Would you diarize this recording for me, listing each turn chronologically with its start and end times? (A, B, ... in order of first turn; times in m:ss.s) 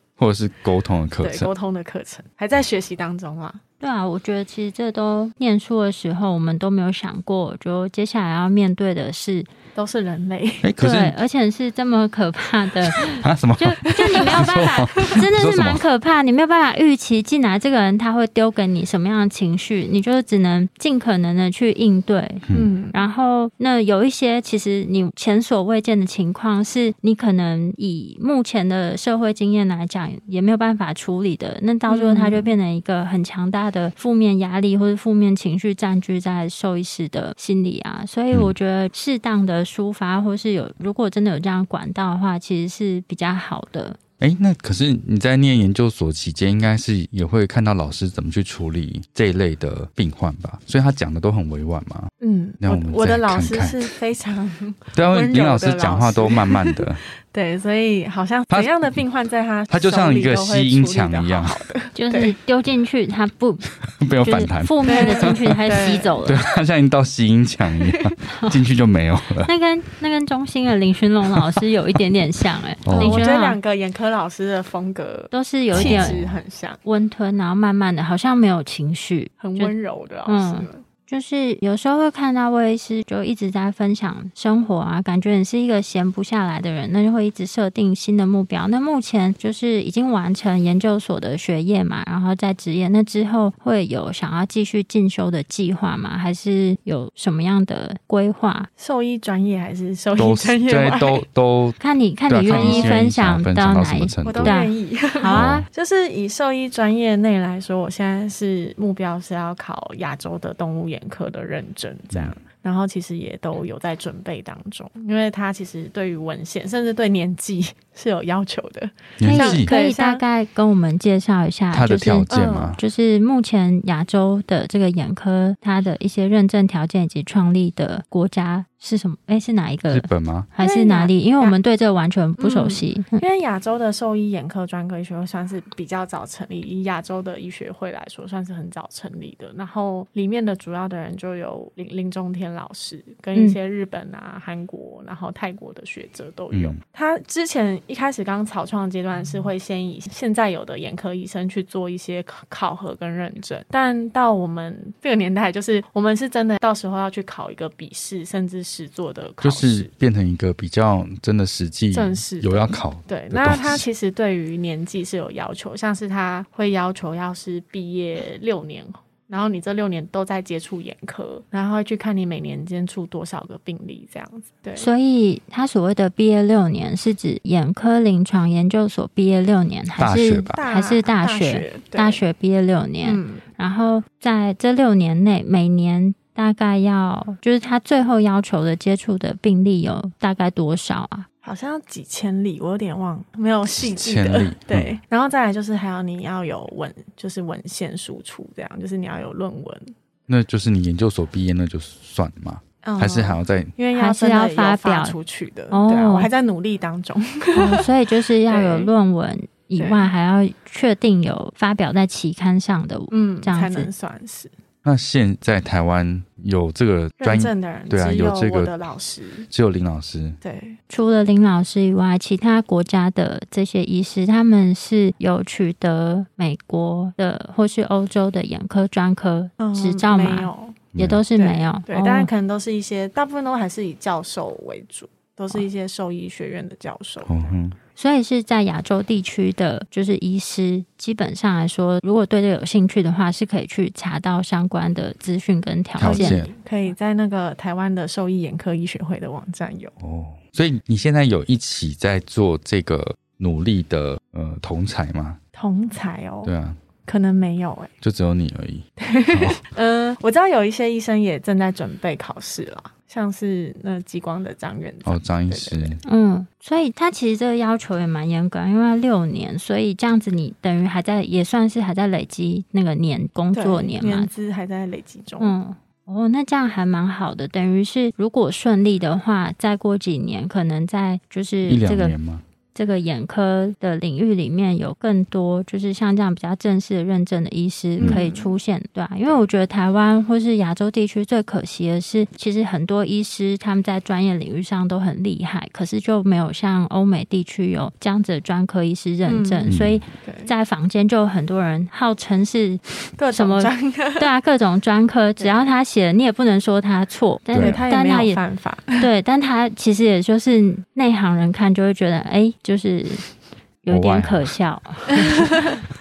0:00.2-0:01.5 A
0:01.2-0:03.6 B
0:03.8-0:09.5 C
0:09.8-0:10.7 B
0:10.6-0:11.2 A
0:10.8-0:44.0 C
0:12.9-0:15.8 A
0:22.5-0:23.0 B
0:31.9-0:32.5 B
0:44.2-0:52.1 A
0:52.2-1:02.3 B
0:52.6-0:53.9 A
0:54.9-0:57.0 A
0:59.7-1:01.6 A
1:02.0-1:03.7 C
1:03.9-1:05.6 A
1:04.2-1:06.4 C
1:04.9-1:06.2 B
1:06.2-1:09.5 A
1:07.8-1:08.1 B
1:08.3-1:08.6 C
1:09.4-1:13.6 C
1:12.8-1:13.2 A
1:12.9-1:16.8 B
1:15.3-1:16.2 C
1:15.7-1:16.4 A
1:16.8-1:19.7 C
1:19.4-1:20.8 B
1:20.3-1:38.7 C
1:38.8-1:41.2 B
1:40.2-1:44.6 A
1:41.8-1:45.7 C
1:42.5-1:43.0 B
1:44.2-2:00.2 B
1:45.3-1:45.7 A
1:59.2-1:59.7 A
1:59.2-2:13.2 C
2:01.7-2:02.8 A
2:02.3-2:02.8 B
2:09.9-2:10.5 A
2:10.6-2:11.6 B
2:12.4-2:39.9 B
2:26.5-2:26.8 A
2:39.4-2:43.8 A
2:41.9-2:54.9 B
2:54.8-3:11.3 C
3:00.0-3:00.6 A
3:00.5-3:02.2 B
3:03.0-3:03.4 B
3:11.4-3:19.9 B
3:13.7-3:15.0 A
3:20.3-3:23.7 A
3:22.8-3:28.9 B
3:23.9-3:25.2 C
3:25.7-3:26.3 C
3:27.6-3:33.9 C
3:29.8-3:30.1 B
3:33.1-3:34.5 B
3:34.8-3:38.7 A
3:37.2-3:39.5 B
3:39.5-3:40.4 A
3:40.4-3:40.8 B
3:40.9-3:52.3 C
3:49.6-3:57.5 B
3:50.9-3:51.2 A
3:57.2-3:57.8 A
3:58.0-4:06.4 C
4:06.0-4:06.5 A
4:06.0-4:09.9 B
4:10.0-4:15.4 A
4:15.6-4:16.5 B
4:16.4-4:16.8 A
4:17.1-4:17.9 B
4:18.0-4:19.6 A
4:19.0-4:26.0 B
4:25.1-4:26.0 A
4:26.0-4:34.3 C
4:33.5-4:35.6 B
4:35.4-4:42.1 C
4:41.7-4:42.4 A
4:42.7-5:08.4 C
4:48.0-4:48.2 A
4:48.0-4:48.5 B
4:59.3-4:59.7 B
4:59.7-5:00.0 A
5:00.2-5:00.5 B
5:03.2-5:04.3 B
5:05.4-5:05.7 B
5:07.5-5:07.8 A
5:07.6-5:09.1 B
5:09.0-5:13.2 C
5:13.8-5:15.6 C
5:13.9-5:14.5 A
5:15.1-5:15.8 B